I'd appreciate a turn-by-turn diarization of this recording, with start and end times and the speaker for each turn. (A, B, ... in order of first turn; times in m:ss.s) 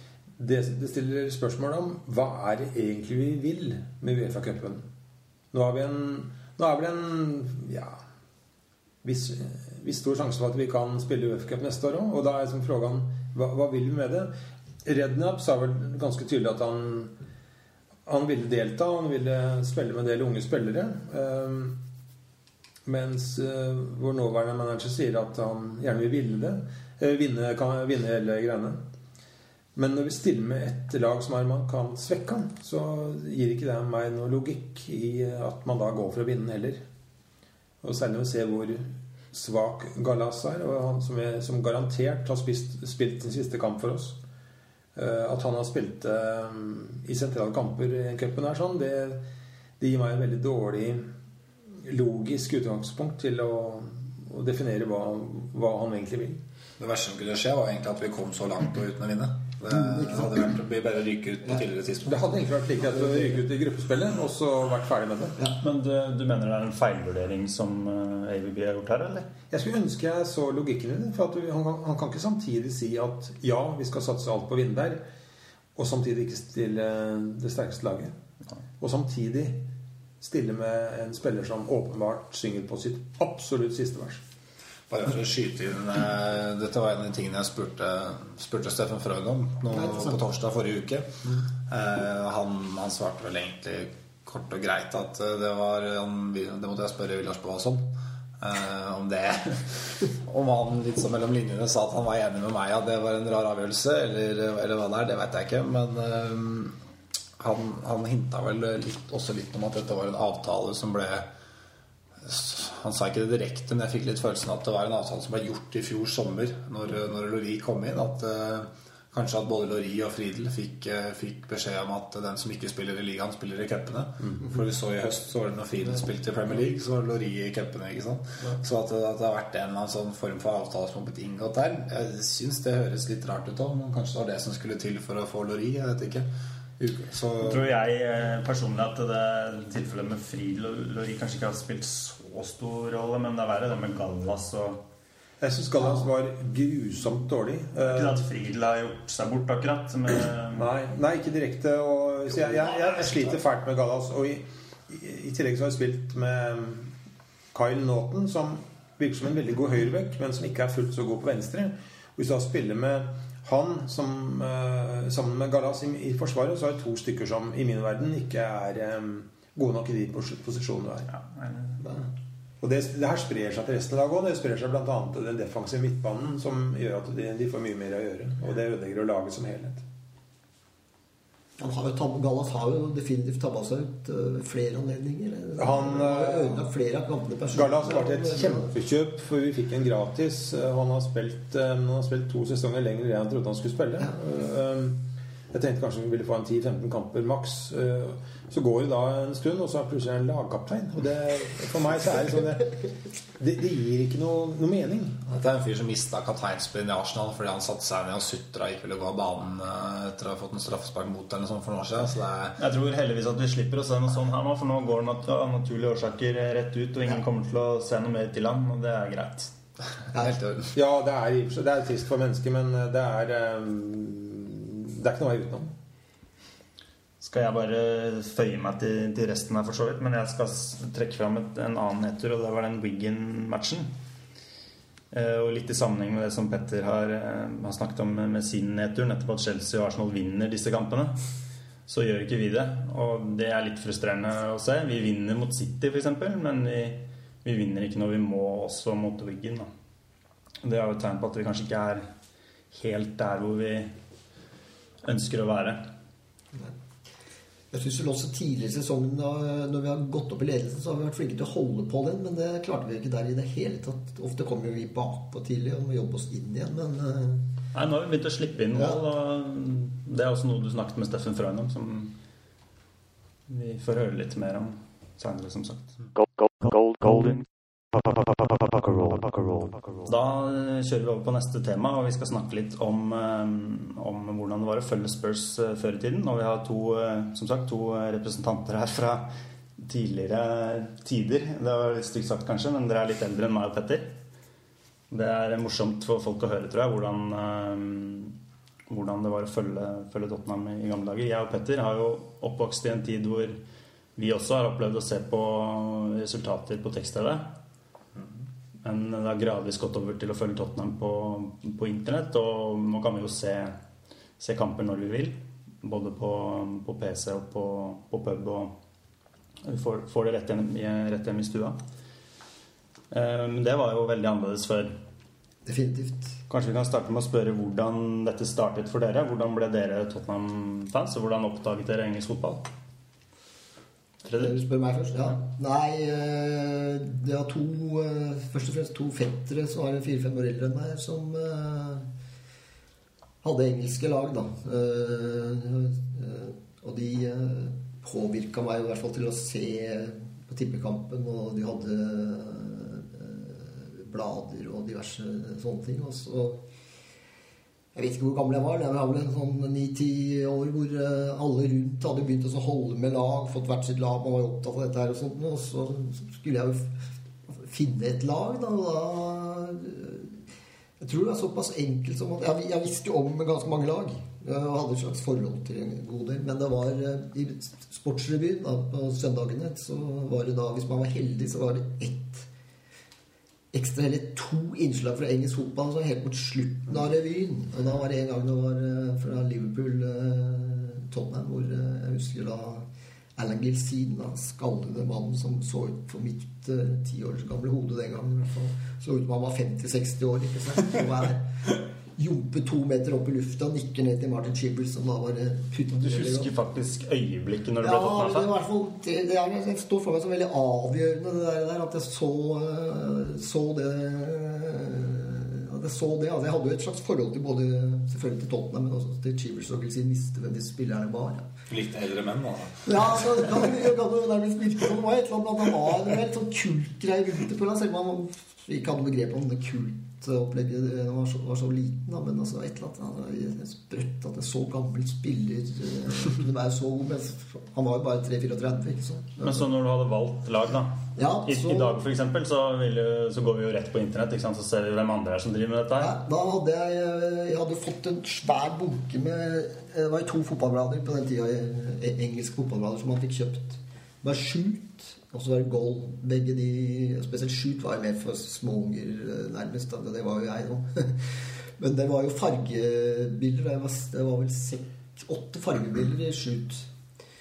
0:00.4-0:04.9 A
0:05.5-0:08.0 A
0:09.0-0:14.3 A
0:14.8-0:17.1 A
0:18.1-0:21.8 A
0:22.9-0:28.8 A
0:29.8-0:36.8 A
0:37.8-0:44.2 A
0:45.0-0:49.2 A
0:49.8-0:51.1 A
0:51.8-0:56.4 A
0:56.8-1:02.5 B
0:59.7-1:00.6 C
1:02.0-1:05.4 A
1:02.9-1:03.4 C
1:05.6-1:09.3 D
1:09.5-1:15.0 A
1:15.8-1:18.2 A
1:18.8-1:19.7 A
1:20.2-1:24.2 A
1:24.9-1:46.8 B
1:29.7-1:30.2 C
1:47.4-1:51.3 B
1:52.2-2:17.7 B
2:17.4-2:24.8 D
2:25.4-2:28.2 A
2:27.9-2:30.7 D
2:30.6-2:36.9 A
2:37.5-2:51.1 A
2:51.1-2:51.9 D
2:52.6-2:59.8 A
3:01.6-3:08.7 C
3:05.6-3:06.7 A
3:07.5-3:22.8 A
3:23.4-3:25.3 A
3:25.3-3:32.6 B
3:32.6-3:39.5 D
3:40.1-3:40.7 B
3:40.8-3:45.7 A
3:47.2-3:53.9 D
3:55.1-4:01.2 D
4:01.9-4:09.7 D
4:10.6-4:12.1 D
4:12.7-4:14.0 D
4:15.0-4:15.9 D
4:17.7-4:27.4 C
4:27.7-4:32.2 D
4:28.8-4:29.0 C
4:33.5-4:36.0 D
4:37.0-4:37.4 D
4:39.0-4:39.5 D
4:40.0-4:54.2 D
4:55.1-4:58.4 D
4:58.9-5:03.6 D
5:04.2-5:07.6 D
5:08.8-5:13.8 D
5:14.4-5:18.8 D
5:19.6-5:21.8 D
5:23.1-5:25.0 D
5:25.6-5:26.4 C
5:26.5-5:32.7 D
5:34.2-5:34.6 D
5:34.4-5:42.1 C
5:43.4-5:56.6 C
5:57.9-6:07.0 C
6:07.5-6:10.4 C
6:11.0-6:22.5 C
6:23.7-6:46.5 C
6:46.0-6:48.5 D
6:47.8-7:01.5 C
7:01.7-7:03.7 B
7:02.8-7:19.7 C
7:19.4-7:26.2 D
7:21.2-7:22.0 C
7:26.0-7:46.9 C